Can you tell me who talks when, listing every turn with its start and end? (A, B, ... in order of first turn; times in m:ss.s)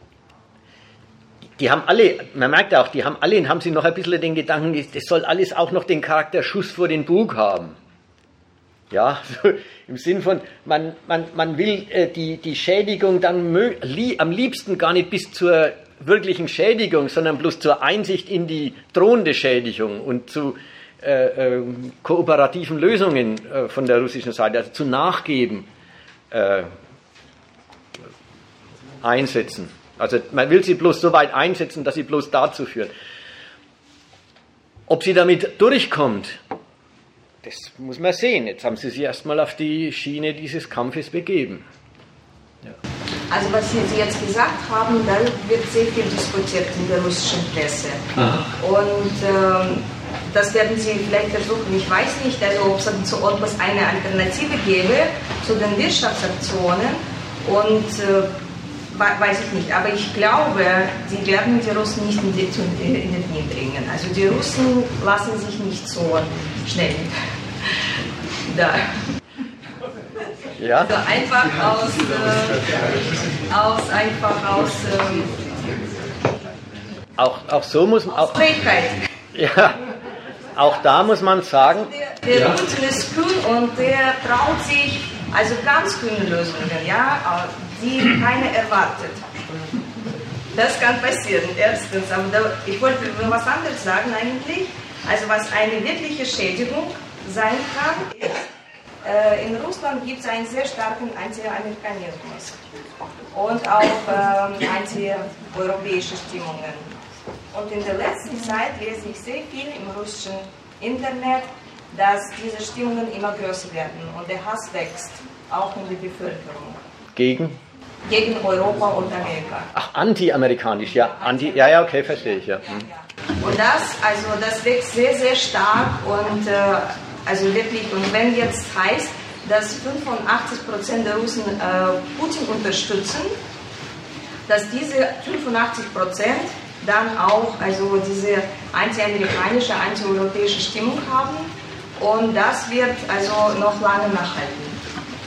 0:01.6-0:07.8 A
0:08.9-0:25.7 A
0:26.3-0:26.7 A
0:29.0-0:32.9 A
0:34.9-0:36.4 A
0:37.4-0:41.6 A
0:43.3-0:58.3 B
0:48.1-0:48.5 A
0:58.9-1:07.1 B
1:08.4-1:09.0 B
1:10.6-1:10.9 A
1:10.9-1:15.4 B
1:17.2-1:18.5 A
1:18.1-1:19.0 B
1:19.3-1:19.8 A
1:20.6-1:21.9 A
1:22.0-1:29.2 B
1:30.5-1:38.4 B
1:39.0-1:42.6 B
1:43.3-1:46.9 B
1:47.5-1:56.8 B
1:57.1-1:57.6 A
1:58.0-1:59.7 B
1:59.7-2:02.9 A
2:01.1-2:02.3 B
2:03.4-2:13.3 B
2:14.5-2:24.8 B